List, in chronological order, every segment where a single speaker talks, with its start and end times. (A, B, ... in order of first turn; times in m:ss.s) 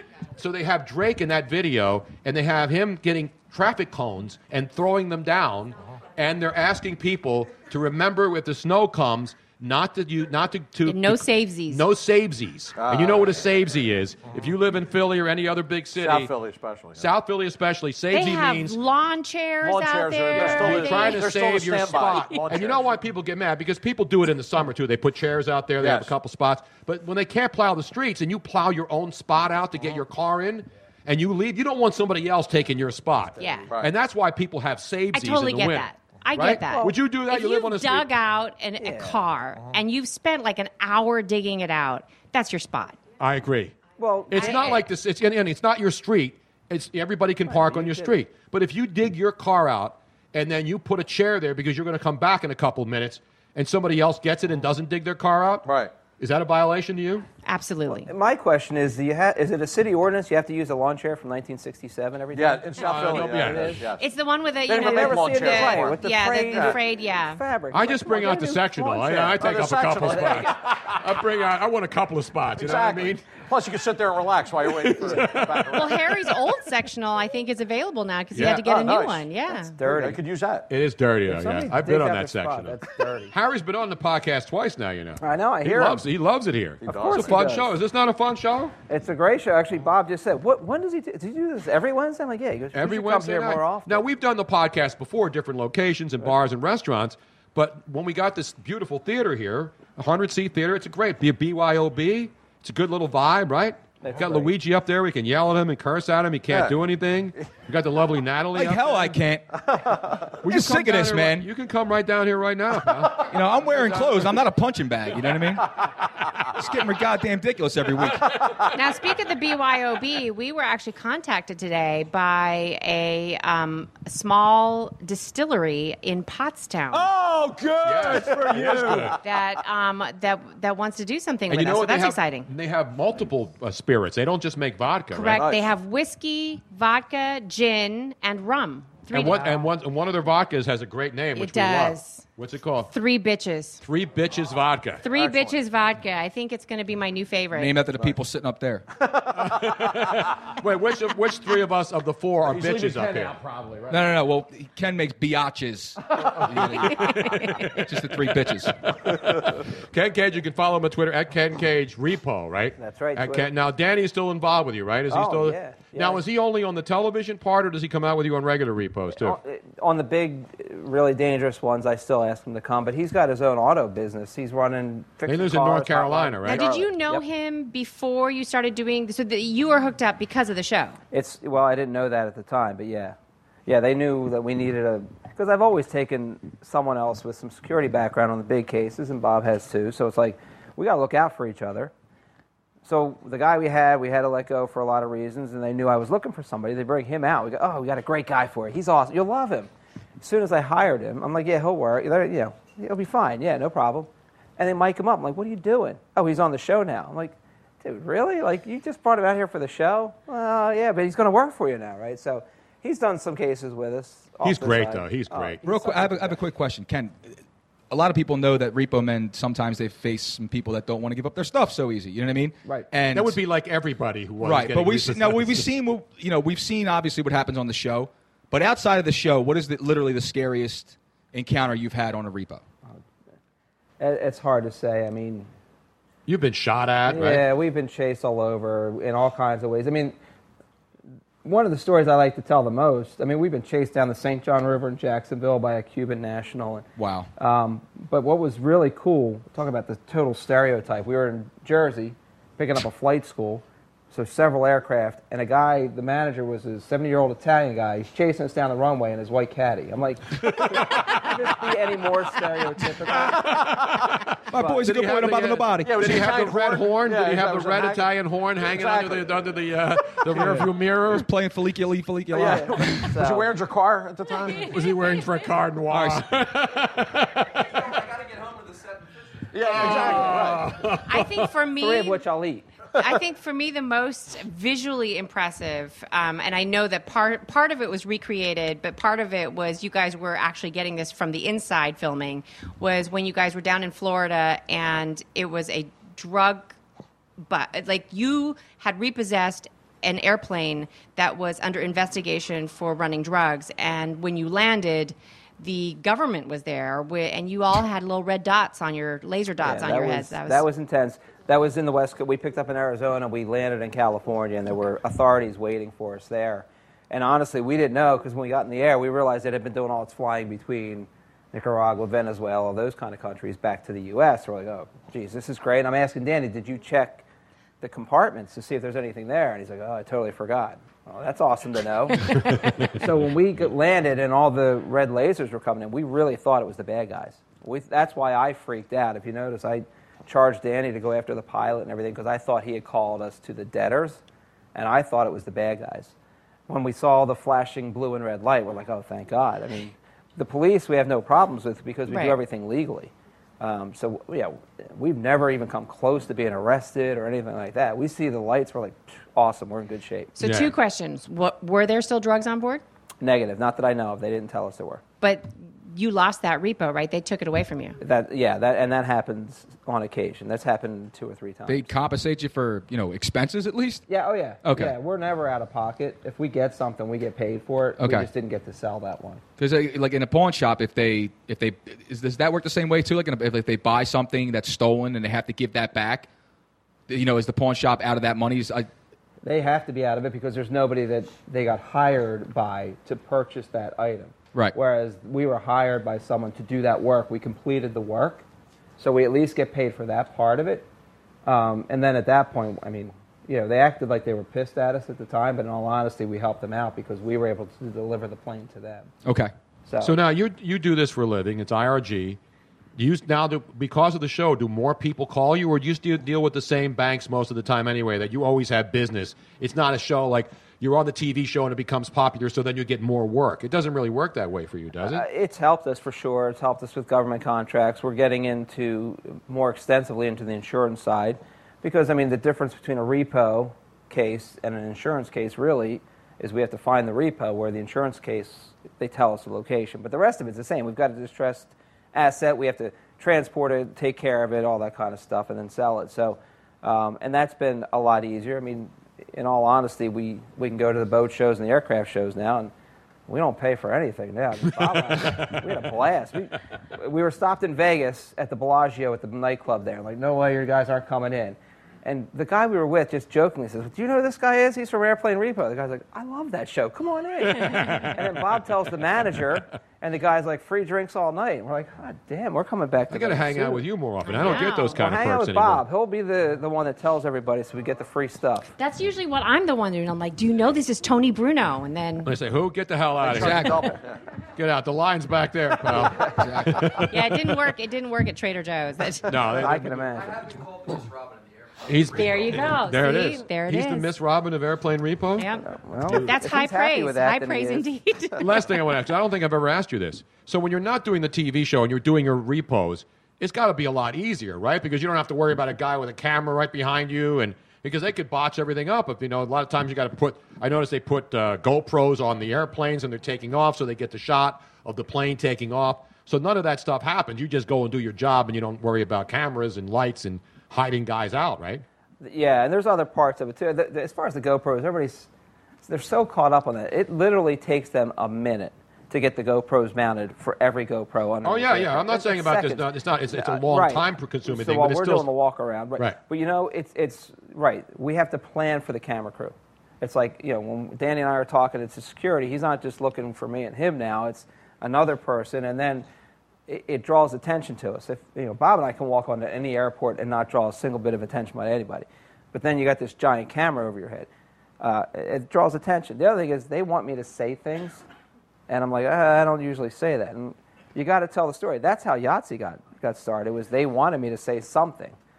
0:00.4-0:16.3 A
0:10.9-0:11.8 B
0:12.8-0:13.4 C
0:16.0-0:17.1 C
0:17.0-0:18.8 A
0:18.1-0:21.2 B
0:19.6-0:23.0 C
0:20.4-0:38.1 A
0:25.8-0:26.1 C
0:33.4-0:33.7 B
0:35.1-0:43.0 B
0:36.7-0:37.0 D
0:38.8-0:39.2 D
0:43.2-0:43.8 A
0:44.0-0:44.6 D
0:44.3-0:57.3 A
0:44.4-0:44.9 B
0:47.5-0:48.2 D
0:55.6-0:55.9 C
0:57.4-0:58.1 B
0:57.9-1:03.8 D
1:02.3-1:04.0 C
1:02.8-1:03.8 A
1:04.0-1:07.4 B
1:04.7-1:06.8 C
1:04.7-1:09.4 D
1:07.7-1:13.3 A
1:09.1-1:10.7 C
1:10.1-1:10.5 D
1:12.6-1:16.1 C
1:14.8-1:15.7 A
1:15.7-1:19.8 B
1:18.3-1:18.7 A
1:18.4-1:19.3 C
1:19.7-1:20.2 D
1:19.8-1:20.7 C
1:20.7-1:22.8 A
1:21.3-1:23.3 D
1:23.3-1:28.8 A
1:25.2-1:26.0 D
1:26.8-1:27.5 C
1:26.8-1:27.7 D
1:28.9-1:34.0 D
1:32.7-1:49.1 A
1:44.0-1:44.5 D
1:46.5-1:46.8 C
1:48.5-1:49.5 E
1:49.6-1:50.3 C
1:50.4-1:53.2 A
1:50.5-1:51.5 E
1:53.2-1:55.7 E
1:53.8-1:54.1 C
1:56.6-1:58.4 E
1:58.7-2:07.1 B
2:06.9-2:09.2 C
2:07.8-2:09.2 A
2:09.2-2:12.5 B
2:11.5-2:15.5 A
2:15.1-2:19.6 B
2:15.3-2:15.7 C
2:19.1-2:22.9 A
2:21.4-2:22.2 B
2:22.9-2:23.8 B
2:23.8-2:25.0 A
2:25.0-2:27.8 B
2:25.1-2:25.6 C
2:27.5-2:28.9 E
2:29.0-2:29.8 C
2:29.3-2:33.4 A
2:32.4-2:34.0 C
2:33.9-2:37.2 E
2:36.4-2:37.8 A
2:36.9-2:37.8 B
2:37.8-2:38.8 E
2:39.0-2:49.4 A
2:42.8-2:43.5 D
2:45.1-2:46.2 D
2:49.1-2:57.2 D
2:55.3-2:56.8 A
2:56.4-3:01.0 B
3:01.1-3:11.9 D
3:12.8-3:19.7 D
3:20.2-3:36.4 D
3:34.4-3:35.6 A
3:35.6-3:37.4 E
3:37.9-3:43.4 E
3:43.1-3:45.7 A
3:44.4-3:52.6 E
3:54.0-3:55.5 D
3:56.3-3:57.5 A
3:57.1-4:00.2 D
4:01.4-4:06.9 D
4:07.0-4:07.3 E
4:07.4-4:23.5 D
4:20.6-4:21.1 A
4:23.5-4:23.9 C
4:23.5-4:31.3 A
4:24.5-4:26.3 E
4:24.5-4:24.8 D
4:25.8-4:29.6 C
4:30.4-4:33.1 E
4:32.3-4:34.7 C
4:32.4-4:33.5 D
4:34.6-4:37.7 A
4:35.9-4:36.2 E
4:39.5-4:40.7 C
4:39.7-4:41.5 A
4:41.1-4:42.2 B
4:41.8-4:42.7 D
4:43.0-4:56.8 B
4:57.4-5:10.6 B
5:09.6-5:27.2 D
5:27.8-5:44.2 D
5:44.8-5:46.1 D
5:46.7-6:00.3 D
5:52.1-5:52.4 B
6:00.4-6:02.8 B
6:00.4-6:00.7 A
6:03.2-6:05.0 D
6:05.2-6:08.0 B
6:08.0-6:11.9 D
6:11.7-6:14.0 E
6:14.1-6:19.4 D
6:14.6-6:15.0 E
6:18.0-6:18.3 E
6:19.6-6:26.3 E
6:27.1-6:28.9 E
6:29.4-6:38.4 D
6:39.0-6:40.9 D
6:41.5-6:49.1 D
6:49.2-6:49.5 E
6:49.9-6:50.2 D
6:50.0-6:52.4 A
6:53.0-7:05.2 A
7:05.0-7:32.7 D
7:33.3-7:53.8 D
7:35.2-7:35.5 A
7:47.7-7:48.2 A
7:53.1-7:55.8 A
7:54.2-7:55.0 B
7:54.9-7:58.7 D
7:58.8-8:02.3 B
8:02.2-8:03.9 A
8:03.2-8:04.2 C
8:03.3-8:03.9 E
8:04.6-8:07.6 A
8:06.3-8:07.0 E
8:07.1-8:09.5 B
8:09.3-8:10.0 A
8:09.5-8:10.5 D
8:11.8-8:15.5 A
8:12.1-8:14.1 B
8:15.4-8:18.7 B
8:15.6-8:17.9 D
8:18.4-8:41.8 A
8:42.2-8:45.3 D
8:45.8-9:06.1 D
8:51.4-8:55.3 A
9:06.7-9:14.3 D
9:14.8-9:18.0 D
9:18.7-9:25.2 D